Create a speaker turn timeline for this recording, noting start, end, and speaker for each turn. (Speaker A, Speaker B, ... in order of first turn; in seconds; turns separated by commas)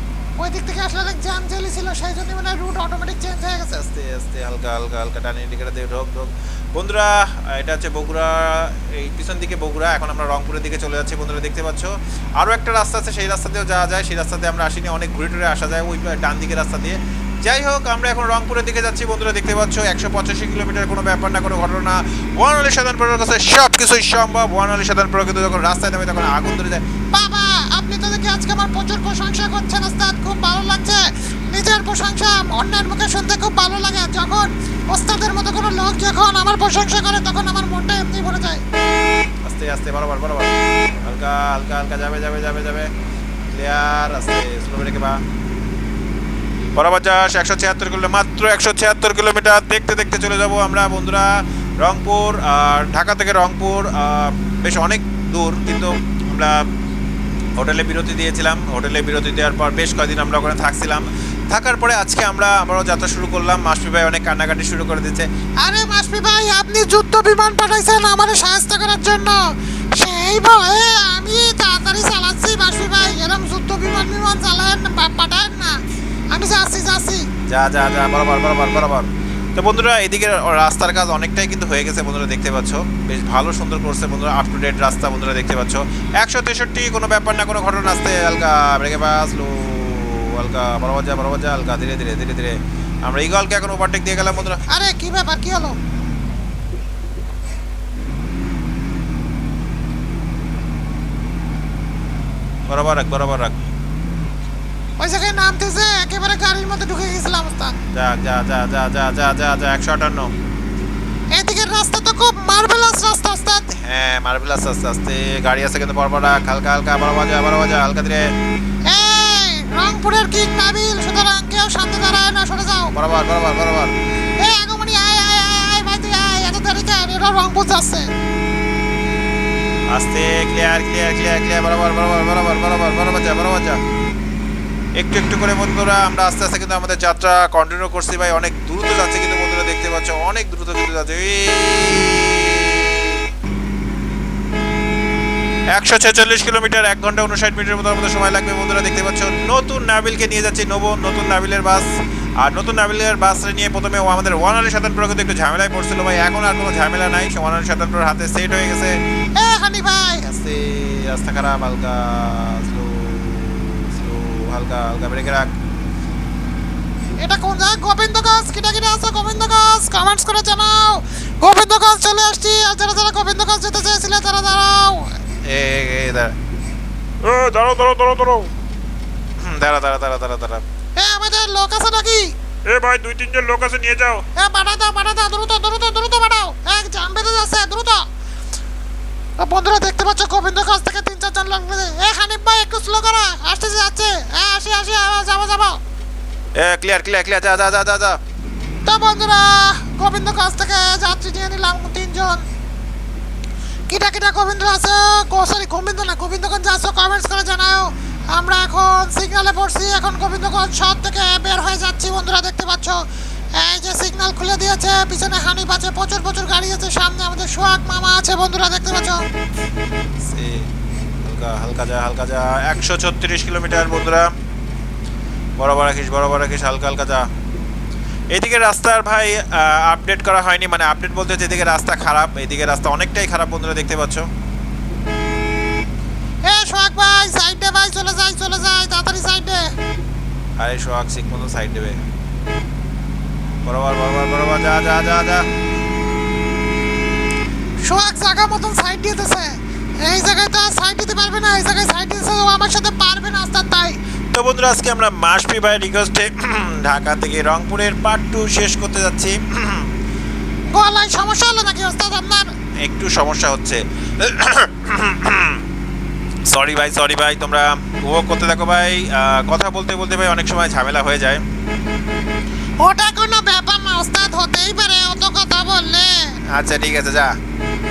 Speaker A: 0.4-3.7, Speaker B: 3.7-26.8, Speaker A: 27.1-38.6, Speaker B: 39.5-42.9, Speaker B: 43.5-45.2, Speaker B: 46.8-56.6, Speaker B: 57.6-65.3, Speaker A: 65.6-75.8, Speaker A: 76.3-77.3, Speaker B: 77.5-94.6, Speaker A: 94.7-95.8, Speaker B: 102.7-103.6, Speaker A: 105.0-107.8, Speaker B: 107.9-110.3, Speaker A: 111.3-113.7, Speaker B: 113.8-118.3, Speaker A: 118.9-122.9, Speaker B: 123.0-124.0, Speaker A: 124.4-128.1, Speaker B: 129.9-133.8, Speaker B: 135.0-143.2, Speaker B: 145.7-159.0, Speaker A: 159.4-160.2, Speaker B: 160.2-165.5, Speaker A: 167.2-175.2, Speaker B: 175.4-176.3, Speaker C: 177.2-178.5, Speaker B: 179.4-180.6, Speaker A: 181.0-182.3, Speaker C: 182.7-184.2, Speaker A: 184.3-188.1, Speaker A: 189.4-195.8, Speaker B: 196.6-198.2, Speaker A: 198.9-202.4, Speaker A: 203.9-213.0, Speaker A: 213.6-219.2, Speaker B: 220.2-220.7, Speaker B: 221.2-224.3, Speaker B: 225.6-227.3, Speaker B: 228.3-234.3, Speaker A: 236.4-239.7, Speaker B: 240.6-242.0, Speaker B: 243.7-245.5, Speaker A: 247.8-254.0, Speaker B: 254.3-259.9, Speaker A: 260.7-262.5, Speaker B: 262.8-265.6, Speaker B: 266.5-271.4, Speaker A: 272.8-276.2, Speaker B: 276.5-277.4